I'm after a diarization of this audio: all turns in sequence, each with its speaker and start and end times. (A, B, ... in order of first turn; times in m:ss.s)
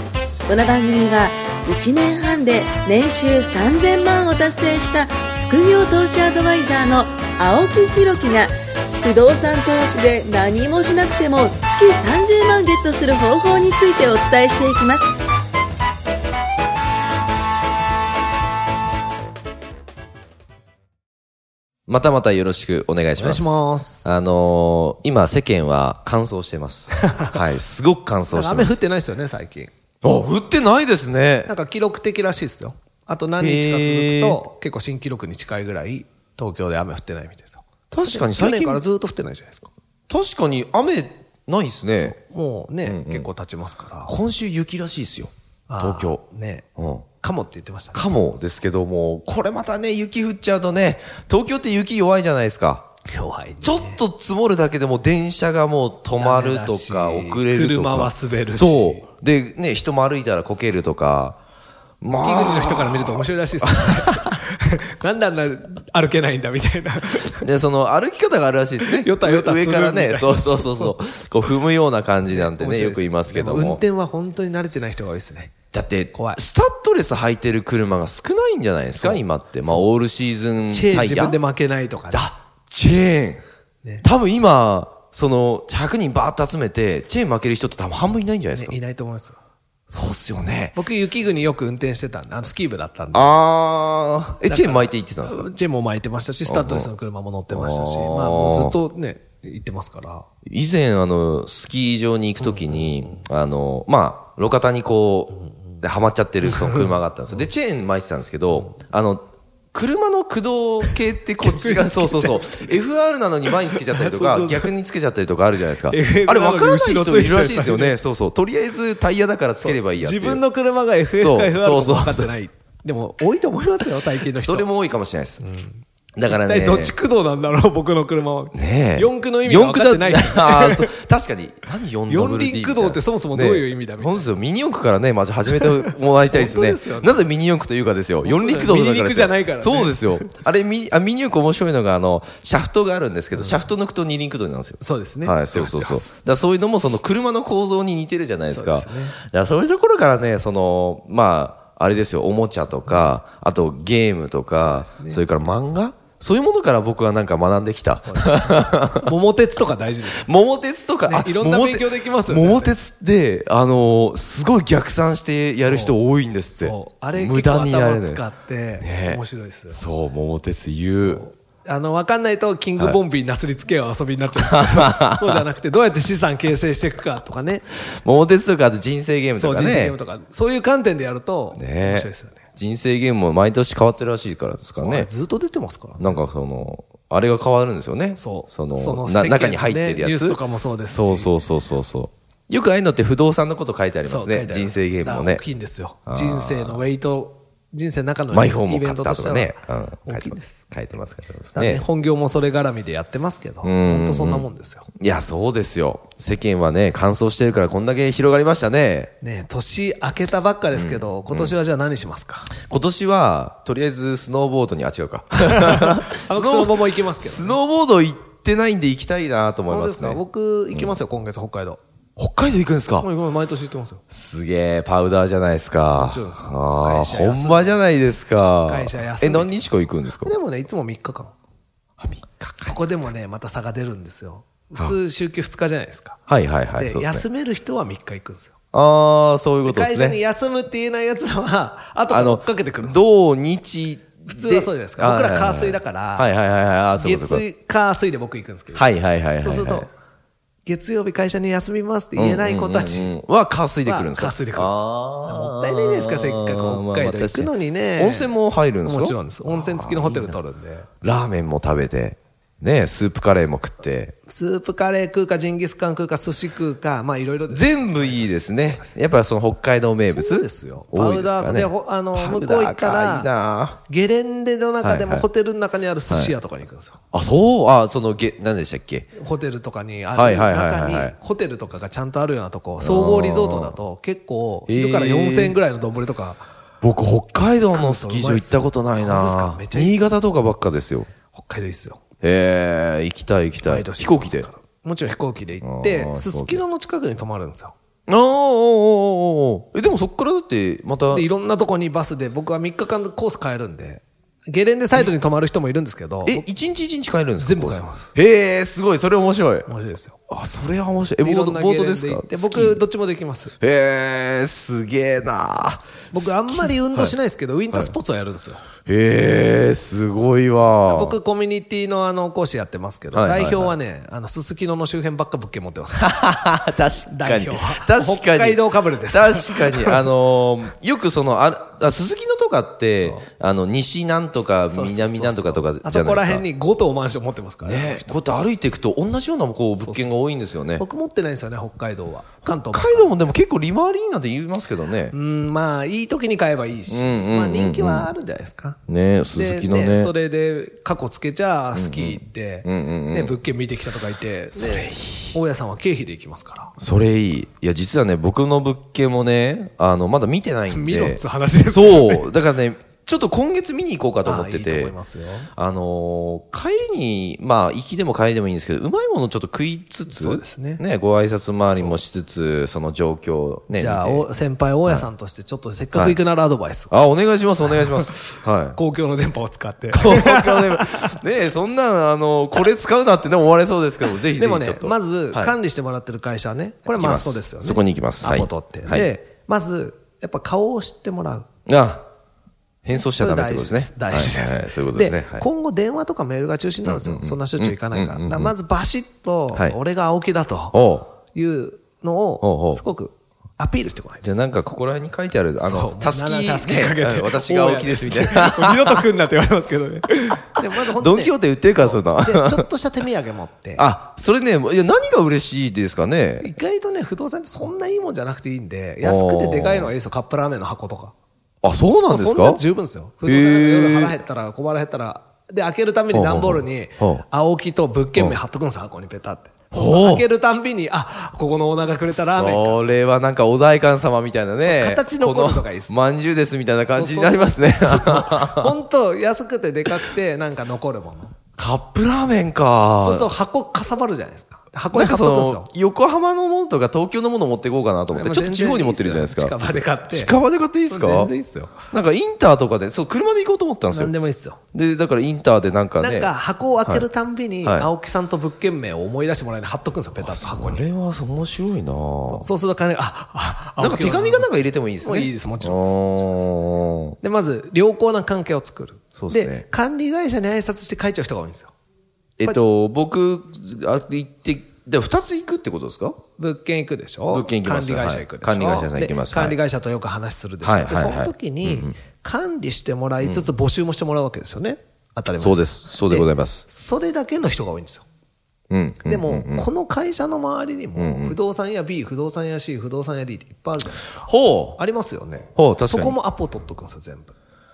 0:00.5-0:15.1 A
0:21.9-0:28.8 B
0:23.2-0:24.1 C
0:27.0-0:27.3 C
0:28.3-0:29.7 C
0:30.0-0:31.5 B
0:31.4-0:39.7 C
0:33.4-0:34.4 B
0:37.9-0:38.8 B
0:40.1-0:42.2 B
0:42.0-0:44.1 C
0:42.8-0:43.3 B
0:44.0-0:46.2 B
0:45.7-0:46.7 C
0:46.8-0:47.0 B
0:47.2-0:48.3 C
0:47.9-0:52.9 B
0:53.1-0:54.0 C
0:53.6-1:01.4 B
0:56.2-0:59.0 C
1:02.0-1:04.4 B
1:02.2-1:07.5 C
1:07.4-1:13.8 B
1:08.9-1:11.0 C
1:12.2-1:15.5 C
1:15.7-1:21.4 B
1:16.1-1:16.4 C
1:19.0-1:19.9 C
1:20.7-1:22.3 C
1:22.1-1:23.4 B
1:24.0-1:28.8 B
1:28.5-1:29.4 C
1:29.9-1:30.8 B
1:30.7-1:33.4 C
1:33.1-1:35.5 B
1:34.5-1:40.2 C
1:36.4-1:36.9 B
1:37.5-1:38.8 B
1:40.4-2:00.4 B
1:42.4-1:43.2 C
1:46.4-1:46.9 C
1:51.4-1:52.8 C
1:53.5-1:54.7 C
1:55.9-1:58.0 C
1:59.6-2:04.7 C
2:01.1-2:02.3 B
2:04.2-2:05.4 B
2:05.4-2:10.9 C
2:06.2-2:06.9 B
2:08.5-2:39.1 B
2:12.1-2:14.3 C
2:15.5-2:17.1 C
2:18.2-2:20.3 C
2:23.3-2:23.6 C
2:24.8-2:26.1 C
2:28.5-2:29.2 C
2:34.6-2:35.2 C
2:38.0-2:40.3 C
2:40.1-2:48.2 B
2:41.0-2:42.8 C
2:45.6-2:46.0 C
2:46.6-2:49.8 C
2:48.8-2:51.2 B
2:50.9-2:57.7 C
2:54.4-2:55.4 B
2:57.8-3:00.0 B
2:59.3-3:02.4 C
3:01.5-3:05.1 B
3:04.7-3:06.2 C
3:06.0-3:15.4 B
3:08.2-3:11.3 C
3:14.0-3:20.6 C
3:16.0-3:16.8 B
3:18.3-3:21.8 B
3:21.5-3:24.8 C
3:23.6-3:24.5 B
3:25.0-3:29.1 B
3:29.2-3:32.5 C
3:30.7-3:31.5 B
3:32.6-3:40.2 B
3:35.5-3:37.6 C
3:39.7-3:41.8 C
3:40.7-3:41.0 B
3:42.2-3:43.1 B
3:43.0-3:44.0 C
3:44.1-3:50.3 B
3:46.0-3:47.8 C
3:48.6-3:51.3 C
3:52.0-3:52.8 B
3:52.6-3:56.2 C
3:56.3-3:57.2 B
3:56.7-3:58.6 C
3:58.7-4:00.2 B
3:59.6-4:03.0 C
4:02.1-4:07.4 B
4:04.3-4:06.3 C
4:07.0-4:09.9 C
4:08.7-4:09.9 B
4:10.6-4:13.1 C
4:12.1-4:20.4 B
4:13.8-4:20.9 C
4:21.0-4:24.1 B
4:24.2-4:28.9 C
4:27.5-4:33.8 B
4:30.1-4:33.3 C
4:33.8-4:37.0 C
4:34.8-4:35.3 B
4:37.1-4:39.1 B
4:39.2-4:46.4 C
4:40.1-4:41.1 B
4:42.8-4:43.8 B
4:44.7-4:45.6 B
4:46.8-4:51.1 B
4:47.7-4:50.1 C
4:51.3-4:52.0 C
4:52.2-4:54.5 B
4:53.6-4:57.7 C
4:55.6-4:56.6 B
4:58.1-5:01.2 B
5:01.1-5:06.4 C
5:06.2-5:09.7 B
5:07.4-5:08.1 C
5:09.7-5:10.2 C
5:10.3-5:12.8 B
5:11.2-5:13.6 C
5:13.6-5:17.2 B
5:16.1-5:18.6 C
5:18.9-5:21.2 B
5:20.9-5:26.4 C
5:23.1-5:23.7 B
5:26.0-5:36.4 B
5:27.1-5:30.1 C
5:33.0-5:33.3 C
5:34.7-5:38.2 C
5:37.6-5:40.8 B
5:39.8-5:40.1 C
5:40.8-5:43.2 C
5:42.4-5:45.1 B
5:45.1-5:48.8 C
5:46.9-5:48.1 B
5:48.9-5:50.1 B
5:49.3-5:56.7 C
5:51.7-5:53.4 B
5:54.5-5:55.4 B
5:56.8-6:04.9 B
6:00.7-6:02.3 C
6:04.2-6:05.5 C
6:05.5-6:14.3 B
6:10.1-6:10.8 C
6:11.7-6:12.0 C
6:13.8-6:16.9 C
6:16.9-6:18.8 B
6:17.7-6:18.1 C
6:18.7-6:21.1 C
6:19.9-6:25.5 B
6:24.3-6:31.5 C
6:26.9-6:29.1 B
6:31.7-6:32.0 B
6:32.8-6:35.5 B
6:33.2-6:40.8 C
6:36.8-6:38.5 B
6:40.7-6:41.1 B
6:41.3-6:44.3 C
6:42.4-6:42.8 B
6:44.2-6:49.0 B
6:45.6-6:53.9 C
6:50.6-6:52.7 B
6:53.8-6:56.5 B
6:56.4-7:01.1 C
6:59.0-6:59.9 B
7:01.6-7:02.6 B
7:02.1-7:12.8 C
7:03.2-7:04.1 B
7:06.1-7:07.2 B
7:09.7-7:10.2 B
7:12.1-7:18.8 B
7:14.6-7:15.9 C
7:16.9-7:21.3 C
7:21.6-7:23.3 B
7:23.0-7:25.7 C
7:24.9-7:31.3 B
7:28.1-7:30.3 C
7:30.9-7:31.8 C
7:31.9-7:34.1 B
7:33.9-7:34.6 C
7:34.7-7:36.3 B
7:36.0-7:40.8 C
7:37.6-7:37.9 B
7:40.2-7:42.5 B
7:42.2-7:44.5 C
7:43.8-7:47.2 B
7:45.0-7:46.0 C
7:47.2-7:51.7 C
7:49.1-7:49.6 B
7:52.4-7:56.2 B
7:56.4-8:08.0 C
7:57.3-7:59.6 B
8:00.6-8:02.0 B
8:03.2-8:03.5 B
8:05.3-8:06.6 B
8:08.7-8:09.7 B
8:09.0-8:17.3 C
8:10.9-8:11.3 B
8:14.2-8:14.8 B
8:15.6-8:16.2 B